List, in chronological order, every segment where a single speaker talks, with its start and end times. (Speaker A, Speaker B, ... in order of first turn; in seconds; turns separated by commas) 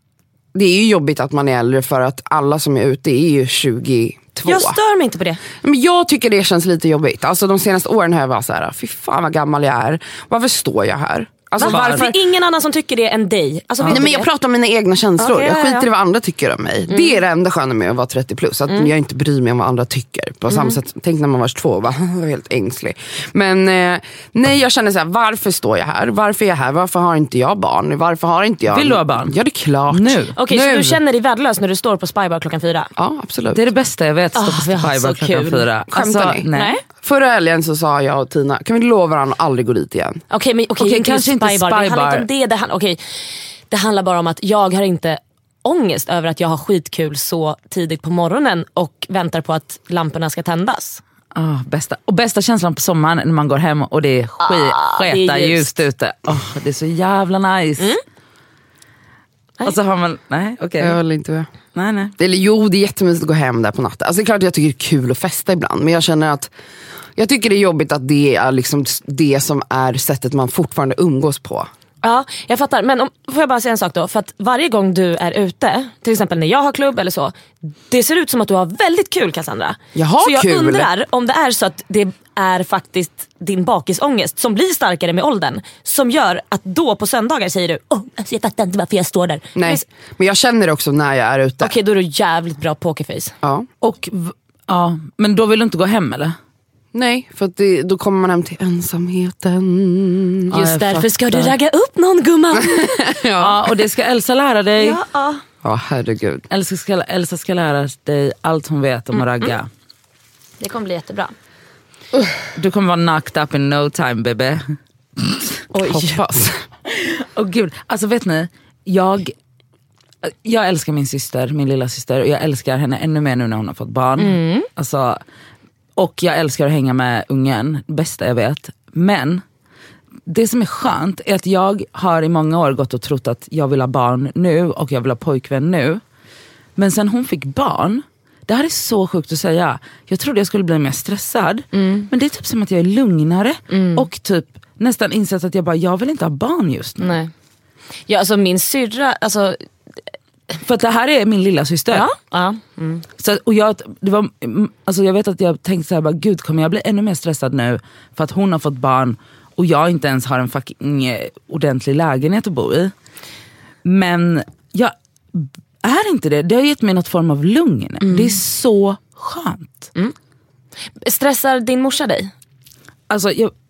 Speaker A: 0.5-4.8, Speaker B: 4.4-5.4, Speaker A: 5.6-12.2, Speaker B: 11.6-14.3, Speaker C: 11.6-12.1, Speaker A: 13.8-31.0, Speaker B: 15.2-15.9, Speaker B: 16.9-17.2, Speaker B: 20.5-20.8, Speaker C: 28.7-29.4, Speaker C: 29.9-30.3, Speaker B: 30.4-32.9, Speaker A: 33.0-33.6, Speaker C: 33.5-36.8, Speaker B: 34.4-35.6, Speaker A: 35.9-36.5, Speaker B: 36.5-36.8, Speaker A: 37.0-40.2, Speaker B: 40.3-51.0, Speaker C: 40.8-42.2, Speaker C: 51.3-57.9, Speaker B: 54.4-55.8, Speaker C: 59.6-61.0, Speaker A: 60.8-61.5, Speaker C: 61.7-62.1, Speaker A: 62.2-66.5, Speaker A: 67.2-71.7, Speaker B: 72.0-89.8, Speaker A: 79.9-80.9, Speaker A: 89.5-91.7, Speaker B: 91.6-93.3, Speaker C: 93.8-96.3, Speaker A: 96.9-100.7, Speaker B: 100.5-103.0, Speaker C: 100.5-101.5, Speaker A: 102.7-103.5, Speaker C: 103.4-105.0, Speaker B: 104.8-105.4, Speaker A: 105.6-106.5, Speaker C: 106.5-109.7, Speaker B: 110.6-111.3, Speaker C: 112.5-115.4, Speaker A: 115.7-116.6, Speaker B: 115.7-116.2, Speaker C: 116.9-119.3, Speaker C: 120.2-125.2, Speaker B: 124.2-124.7, Speaker C: 126.0-129.4, Speaker C: 130.3-136.0, Speaker C: 136.8-147.2, Speaker B: 141.7-142.1, Speaker B: 143.7-144.1, Speaker B: 147.0-147.3, Speaker B: 148.1-149.6, Speaker C: 150.6-152.1, Speaker B: 151.9-153.0, Speaker C: 153.2-162.9, Speaker C: 163.8-169.9, Speaker B: 168.0-168.3, Speaker B: 171.0-172.3, Speaker C: 173.1-173.5